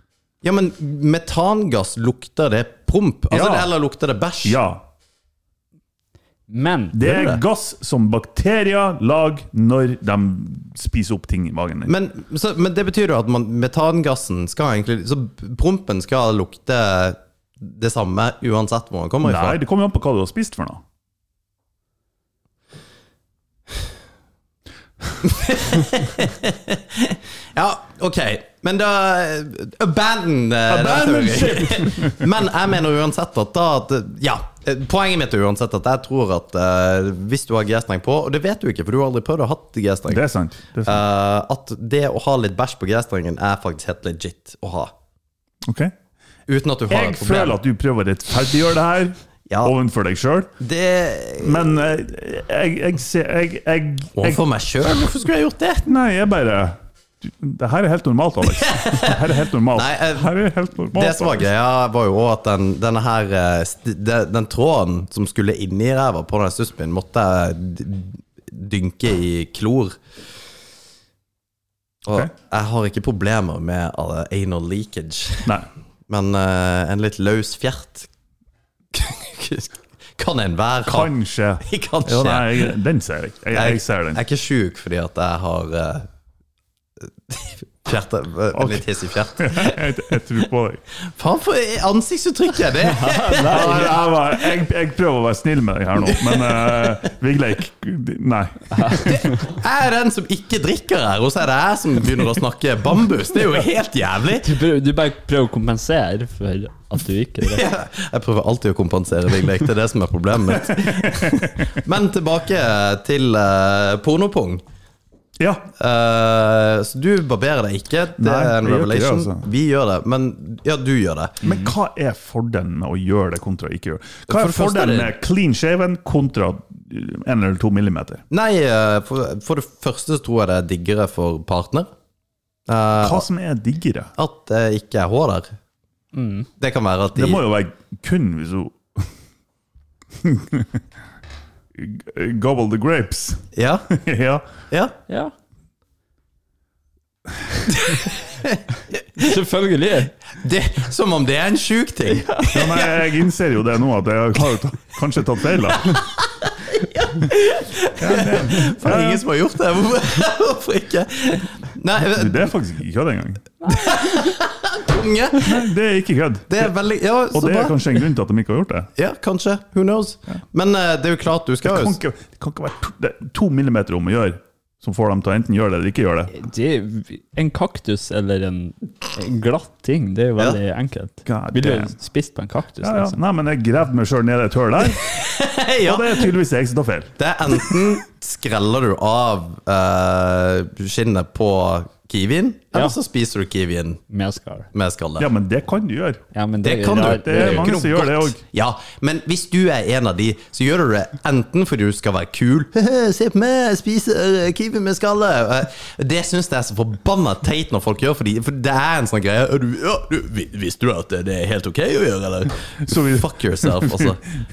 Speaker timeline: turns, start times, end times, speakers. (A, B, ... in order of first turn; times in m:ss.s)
0:00.4-0:04.6 A
0:03.3-0:03.7 B
0:04.4-0:04.8 B
0:06.5-0:07.0 C
0:06.9-0:11.9 B
0:07.0-0:07.4 A
0:11.8-0:19.6 A
0:19.2-0:20.8 B
0:25.2-0:40.2 A
0:30.7-0:32.3 B
0:40.1-0:41.0 B
0:40.8-0:44.9 A
0:45.6-0:45.9 B
0:46.5-0:47.6 A
0:46.9-0:50.5 B
0:50.6-0:51.8 A
0:51.4-0:54.4 B
0:54.2-0:55.9 A
0:55.8-1:01.5 B
0:58.4-1:00.3 A
1:00.9-1:10.0 A
1:12.0-1:15.5 A
1:16.1-1:18.1 A
1:18.9-1:22.7 A
1:20.8-1:24.2 B
1:23.5-1:26.1 A
1:27.3-1:30.1 A
1:28.5-1:30.8 B
1:31.0-1:34.1 A
1:32.9-1:33.9 C
1:33.4-1:39.2 B
1:36.0-1:37.0 A
1:38.7-1:39.4 C
1:39.0-1:44.5 A
1:44.4-1:47.6 C
1:47.4-1:54.6 A
1:50.7-1:51.6 B
1:55.4-1:55.7 B
1:55.8-2:01.5 A
1:58.2-1:59.4 B
2:01.4-2:08.2 B
2:04.3-2:05.1 A
2:08.3-2:11.9 A
2:12.7-2:13.2 A
2:13.0-2:14.1 B
2:14.2-2:15.5 A
2:16.1-2:16.5 C
2:16.6-2:17.4 A
2:17.1-2:19.0 B
2:20.2-2:20.7 B
2:21.8-2:24.5 B
2:23.5-2:23.9 A
2:24.7-2:24.9 A
2:27.7-2:28.6 A
2:29.2-2:30.1 C
2:30.4-2:32.9 A
2:32.5-2:36.0 B
2:35.9-2:42.5 A
2:38.0-2:39.2 B
2:42.1-2:43.5 B
2:43.6-2:45.6 A
2:45.4-2:46.7 B
2:46.5-2:47.9 A
2:47.3-2:48.9 B
2:49.0-2:52.0 A
2:51.6-2:56.3 B
2:56.3-3:03.2 C
3:01.2-3:01.9 B
3:02.8-3:05.1 B
3:05.0-3:06.3 A
3:05.8-3:07.1 B
3:07.2-3:14.0 A
3:14.1-3:14.7 C
3:14.7-3:15.3 A
3:15.2-3:16.2 B
3:16.3-3:17.7 C
3:16.6-3:34.2 A
3:16.9-3:18.4 B
3:32.8-3:34.2 B